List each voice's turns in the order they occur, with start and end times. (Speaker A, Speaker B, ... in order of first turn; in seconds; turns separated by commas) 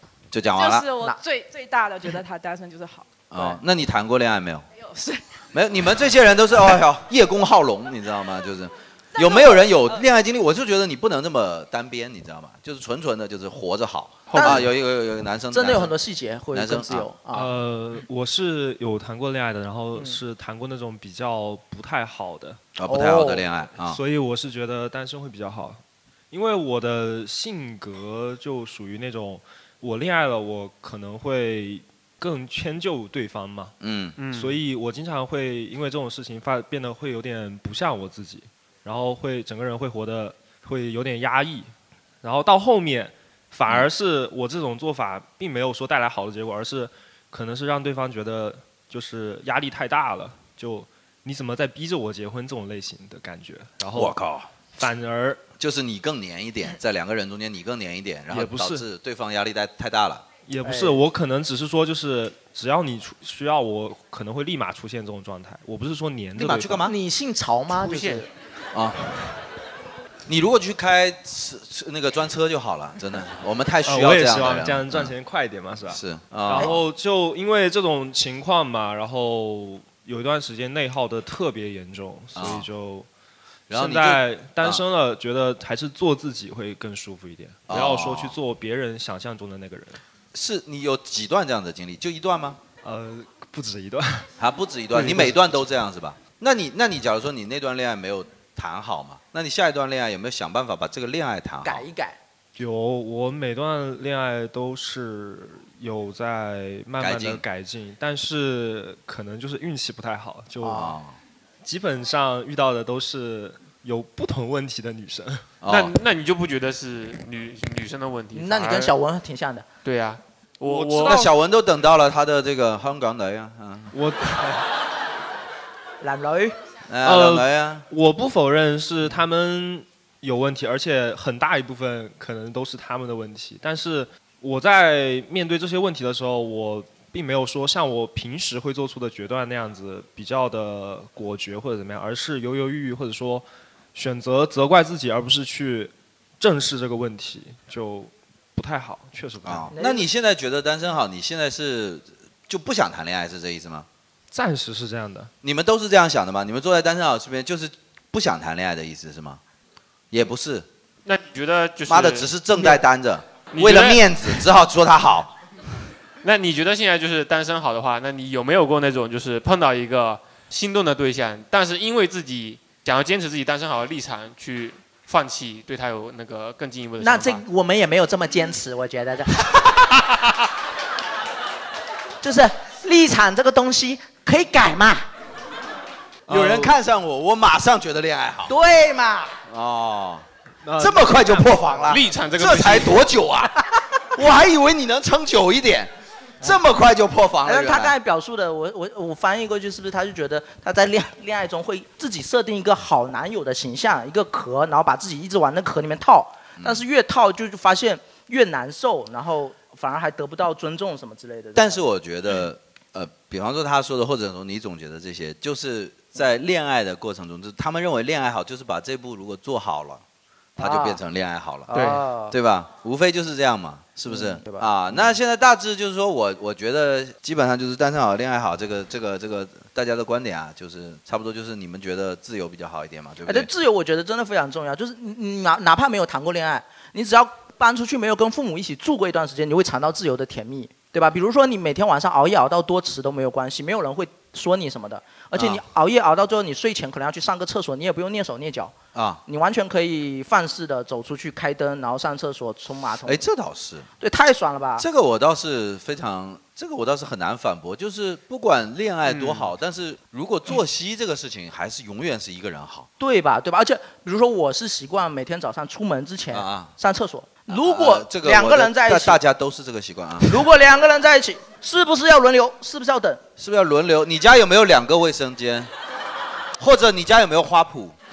Speaker A: 0.3-0.9, Speaker B: 0.5-3.1, Speaker A: 3.3-4.7, Speaker B: 4.8-5.2, Speaker A: 5.5-15.9, Speaker B: 9.2-9.9, Speaker C: 14.3-14.6, Speaker D: 14.3-14.7, Speaker D: 15.5-17.5, Speaker A: 16.5-17.1, Speaker E: 17.3-22.6, Speaker A: 22.8-24.0, Speaker D: 22.9-23.4, Speaker E: 23.9-33.7, Speaker A: 33.8-34.1, Speaker C: 34.2-34.6, Speaker E: 34.3-41.7, Speaker E: 42.2-54.1, Speaker A: 53.9-54.5, Speaker E: 54.8-55.4, Speaker A: 55.6-60.2, Speaker E: 58.3-58.8, Speaker E: 60.5-66.9, Speaker D: 60.6-61.0, Speaker A: 66.3-66.9, Speaker D: 66.8-68.3, Speaker C: 67.7-68.2, Speaker A: 68.7-69.2, Speaker A: 70.3-75.1, Speaker E: 73.8-83.1, Speaker A: 75.9-76.8, Speaker A: 82.3-82.7, Speaker A: 83.7-84.8, Speaker E: 83.7-90.0, Speaker A: 87.7-88.3, Speaker A: 90.3-92.6, Speaker E: 92.8-94.3, Speaker A: 94.4-101.8, Speaker E: 94.9-95.6, Speaker D: 101.6-102.2, Speaker E: 102.5-110.9, Speaker A: 107.0-107.4, Speaker D: 110.6-111.0, Speaker A: 110.7-111.1, Speaker E: 111.6-115.4, Speaker A: 115.6-115.9, Speaker C: 115.7-118.9, Speaker D: 118.3-119.7, Speaker C: 119.8-121.2, Speaker E: 120.7-121.3, Speaker A: 121.0-123.9, Speaker E: 123.9-124.6, Speaker D: 126.0-126.5, Speaker A: 126.9-127.8, Speaker E: 127.0-149.7, Speaker A: 149.4-153.8, Speaker D: 149.7-150.1, Speaker E: 154.3-155.3, Speaker A: 155.4-159.4, Speaker A: 160.1-160.7, Speaker C: 161.0-162.3, Speaker A: 161.9-165.3, Speaker C: 163.5-164.4, Speaker C: 166.2-177.4, Speaker D: 177.0-179.7, Speaker D: 182.2-185.0, Speaker E: 186.3-186.7, Speaker A: 186.3-188.5, Speaker D: 188.5-189.3, Speaker A: 189.5-190.2, Speaker E: 190.6-191.5, Speaker A: 190.8-193.5, Speaker C: 191.8-193.1, Speaker A: 194.1-195.9, Speaker A: 196.4-197.9, Speaker D: 197.4-211.8, Speaker A: 211.5-220.0, Speaker A: 220.6-221.7, Speaker D: 220.6-221.0, Speaker D: 221.7-222.3, Speaker C: 221.7-222.0, Speaker A: 222.3-233.5, Speaker D: 224.1-225.1, Speaker D: 233.2-248.7, Speaker A: 245.3-245.6, Speaker A: 248.9-249.2, Speaker D: 249.2-253.2, Speaker A: 253.1-253.9, Speaker D: 254.0-254.8, Speaker A: 254.8-262.9, Speaker C: 259.1-259.5, Speaker D: 263.0-269.2, Speaker A: 266.3-266.7, Speaker A: 267.5-270.4, Speaker D: 270.2-273.2, Speaker A: 273.4-275.7, Speaker A: 276.6-277.9